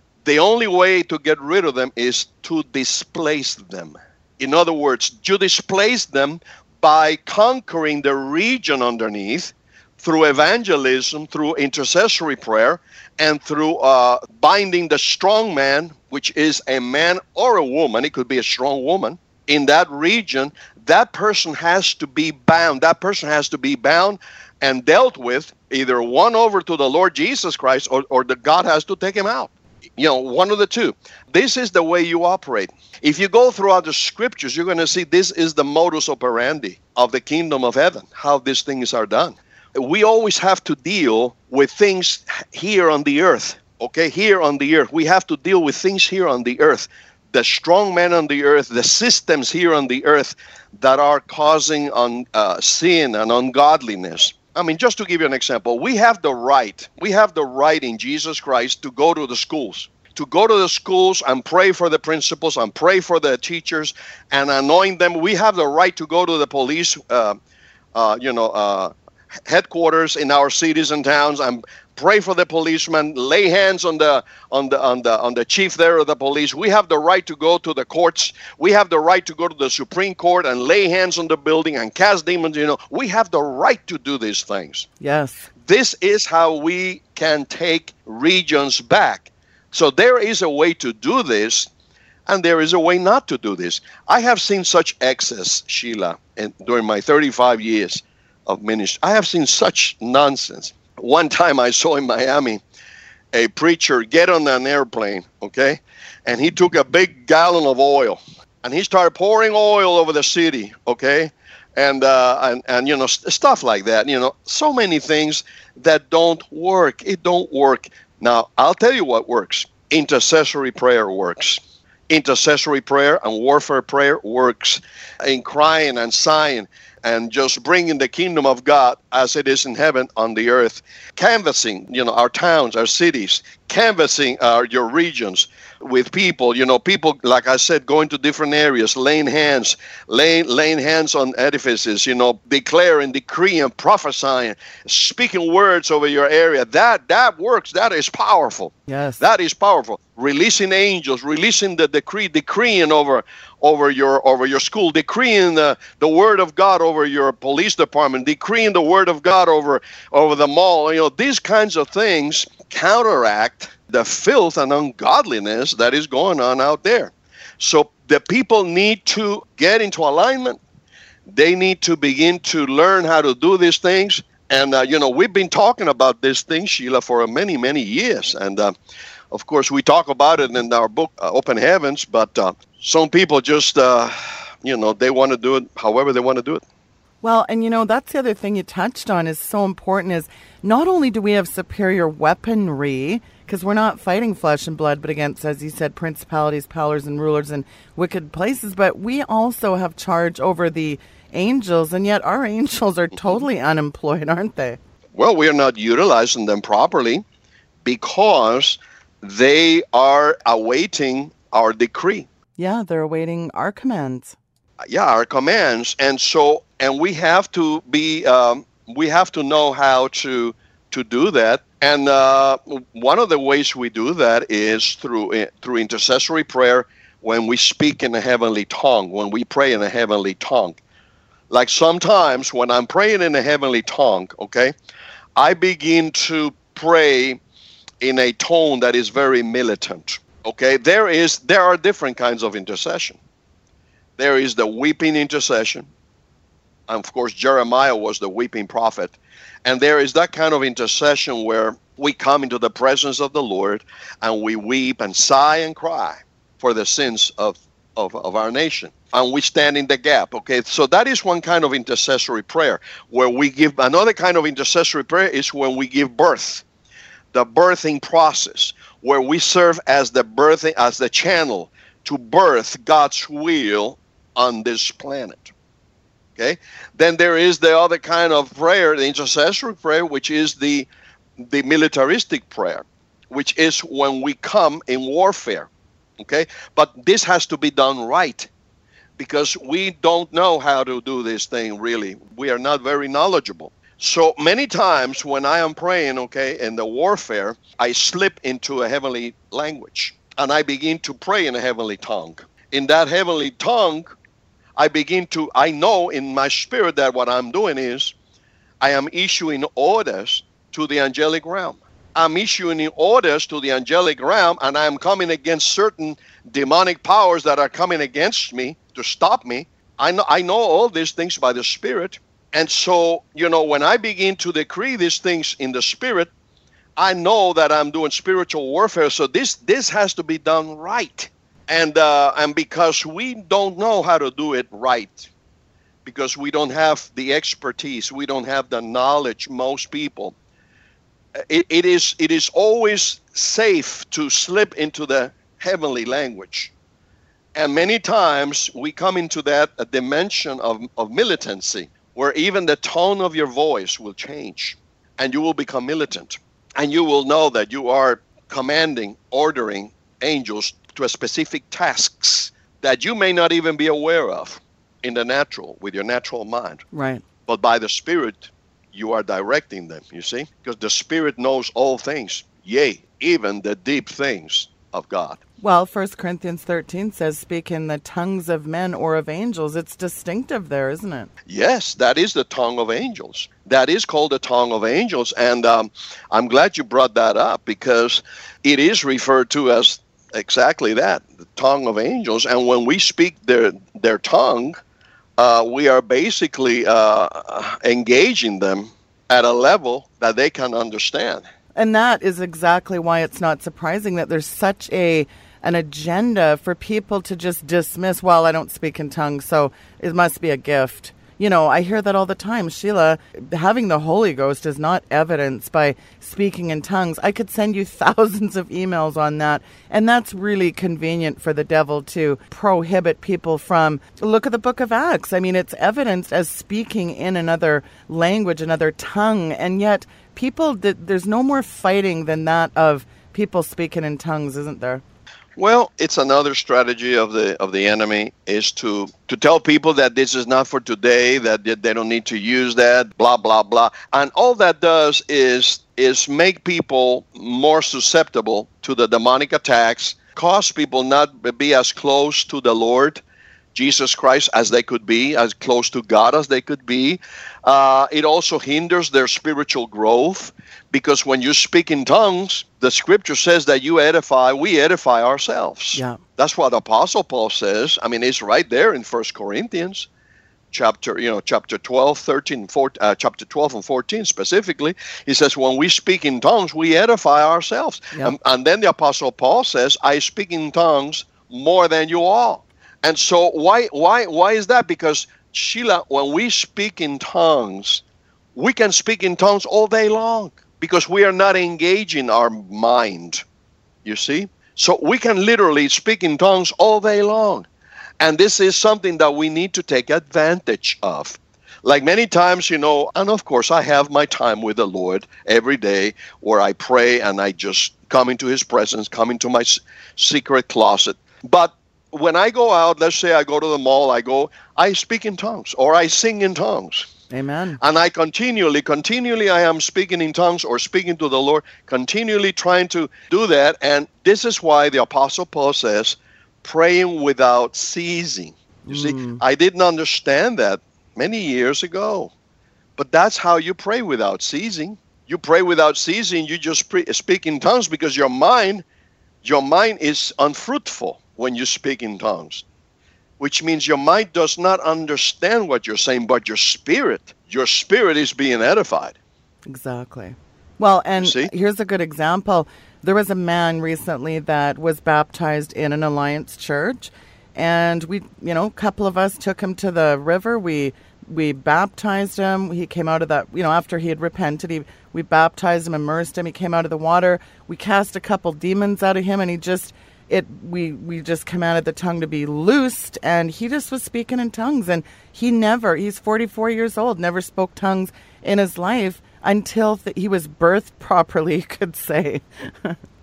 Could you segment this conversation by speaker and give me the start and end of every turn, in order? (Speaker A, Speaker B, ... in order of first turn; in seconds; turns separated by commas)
Speaker A: 0.2-67.4, Speaker A: 67.9-68.9, Speaker A: 69.4-84.9, Speaker B: 85.0-85.5, Speaker A: 85.6-91.7, Speaker A: 92.3-102.6, Speaker A: 103.3-170.6, Speaker B: 148.9-149.2, Speaker A: 171.3-178.7, Speaker A: 179.3-186.6, Speaker B: 187.2-204.8, Speaker A: 205.1-207.2, Speaker A: 207.8-212.3, Speaker B: 212.6-214.3, Speaker A: 214.8-230.8, Speaker A: 231.5-234.7, Speaker A: 235.3-237.4, Speaker A: 238.0-243.2, Speaker A: 244.2-245.9, Speaker A: 246.9-266.6, Speaker A: 267.3-275.5, Speaker A: 276.4-285.7, Speaker A: 286.2-288.5, Speaker A: 289.2-304.1, Speaker A: 304.8-308.1, Speaker A: 308.8-326.3, Speaker A: 327.0-335.3, Speaker A: 336.0-340.3, Speaker A: 341.4-346.7, Speaker A: 347.5-366.8, Speaker B: 366.9-367.2, Speaker A: 367.4-375.4, Speaker B: 375.6-381.3, Speaker A: 381.4-394.8, Speaker A: 395.4-401.4, Speaker B: 401.7-435.0, Speaker A: 435.6-453.2, Speaker A: 453.7-470.1, Speaker B: 465.9-466.2, Speaker A: 470.7-488.0, Speaker A: 488.6-493.4, Speaker A: 494.0-497.7, Speaker A: 498.2-517.1, Speaker B: 517.3-517.8, Speaker A: 517.8-532.3, Speaker B: 528.9-529.4, Speaker A: 533.0-538.8, Speaker A: 539.4-542.6, Speaker A: 543.4-549.2, Speaker B: 549.7-583.0, Speaker A: 551.2-551.5